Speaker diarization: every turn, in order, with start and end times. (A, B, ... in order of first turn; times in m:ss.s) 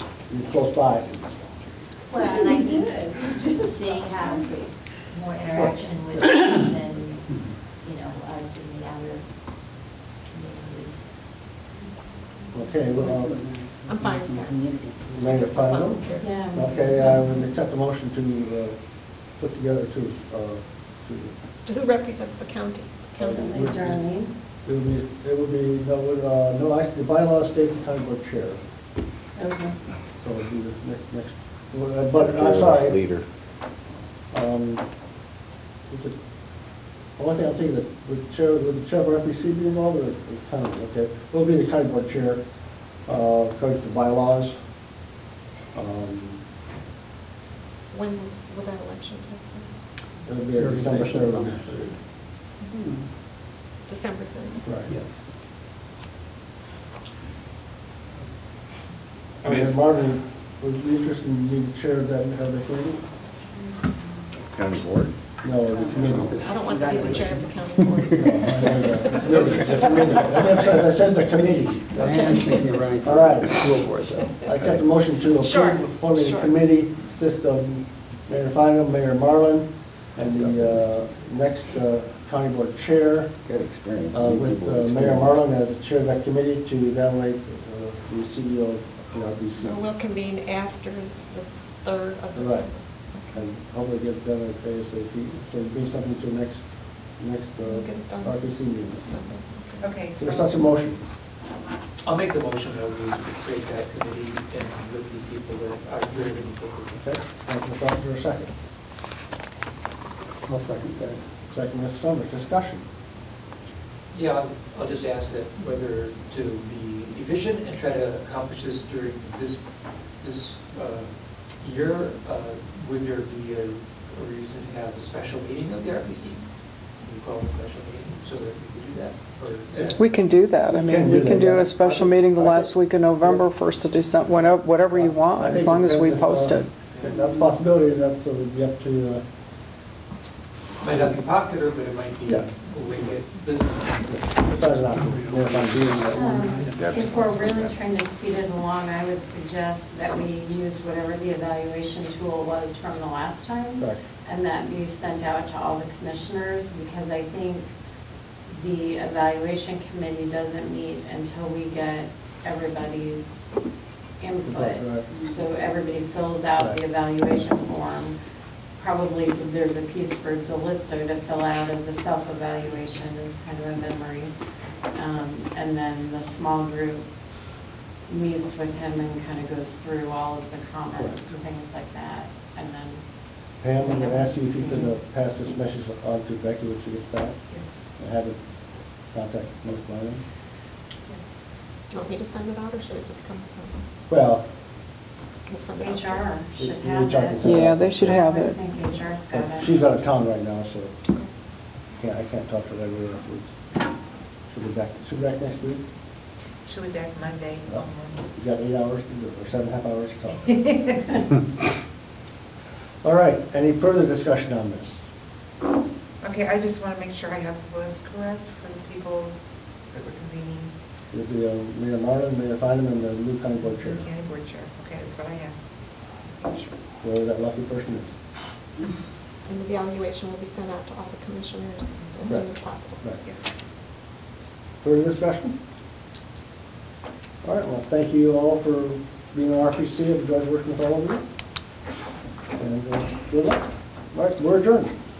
0:00.3-0:01.1 A
0:02.1-0:11.1 B
0:12.5-0:13.4 A
0:12.9-0:15.8 C
0:13.8-0:16.4 D
0:15.1-0:21.3 A
0:16.2-0:17.4 E
0:21.6-0:23.5 D
0:23.2-0:24.1 A
0:23.2-0:24.3 E
0:24.6-0:28.6 A
0:29.4-0:29.8 E
0:30.2-0:33.0 A
0:32.1-0:33.2 F
0:34.3-0:34.8 A
0:35.9-0:36.2 A
0:37.2-0:42.4 A
0:43.0-0:44.6 A
0:45.7-0:46.4 A
0:47.9-0:49.7 D
0:50.2-0:51.7 A
0:50.6-0:52.0 G
0:53.8-0:54.7 D
0:54.6-0:54.9 A
0:54.9-0:55.1 G
0:59.4-1:03.0 A
0:59.4-0:59.7 G
1:04.4-1:05.1 F
1:05.4-1:06.4 A
1:05.8-1:07.4 C
1:06.1-1:06.4 F
1:06.3-1:10.2 D
1:08.2-1:12.1 A
1:12.0-1:14.2 C
1:12.0-1:12.4 D
1:12.1-1:12.4 G
1:13.0-1:13.7 A
1:14.4-1:23.4 A
1:14.6-1:14.8 F
1:15.4-1:16.6 D
1:20.4-1:20.8 F
1:23.4-1:25.4 F
1:24.1-1:29.8 A
1:29.5-1:33.4 D
1:32.3-1:39.1 A
1:37.6-1:40.0 D
1:39.8-1:40.6 H
1:40.2-1:41.0 A
1:42.0-1:47.0 G
1:47.0-1:48.5 A
1:50.7-1:51.2 C
1:51.5-1:52.8 A
1:54.1-1:59.6 G
2:00.2-2:06.4 G
2:07.0-2:10.0 G
2:09.7-2:10.0 A
2:10.0-2:16.7 I
2:10.6-2:13.7 A
2:11.8-2:12.1 G
2:14.3-2:19.2 A
2:16.9-2:17.5 G
2:20.8-2:24.4 G
2:24.1-2:26.0 A
2:24.9-2:27.0 G
2:26.0-2:27.7 F
2:26.1-2:37.7 E
2:38.5-2:43.4 E
2:44.2-2:48.2 E
2:44.4-2:45.1 A
2:48.8-2:54.3 E
2:54.9-2:57.1 E
2:58.1-3:03.0 E
3:00.9-3:01.2 A
3:03.6-3:07.4 A
3:03.8-3:04.9 E
3:07.5-3:07.9 H
3:08.0-3:08.4 A
3:09.1-3:10.2 A
3:11.1-3:11.5 H
3:11.9-3:13.8 D
3:14.1-3:14.4 A
3:15.5-3:16.3 D
3:15.8-3:19.8 E
3:16.6-3:18.2 A
3:17.4-3:18.6 I
3:18.6-3:19.0 D
3:19.3-3:20.9 A
3:21.9-3:23.5 A
3:24.5-3:25.8 A
3:26.6-3:28.2 H
3:27.7-3:30.5 A
3:30.5-3:31.0 H
3:33.0-3:34.9 A
3:36.2-3:39.4 H
3:39.9-3:40.7 H
3:41.1-3:44.0 A
3:43.7-3:46.8 H
3:47.0-3:48.1 A
3:49.4-3:53.1 D
3:53.2-3:53.6 H
3:54.8-3:55.6 A
3:57.4-4:01.2 A
4:02.6-4:04.9 A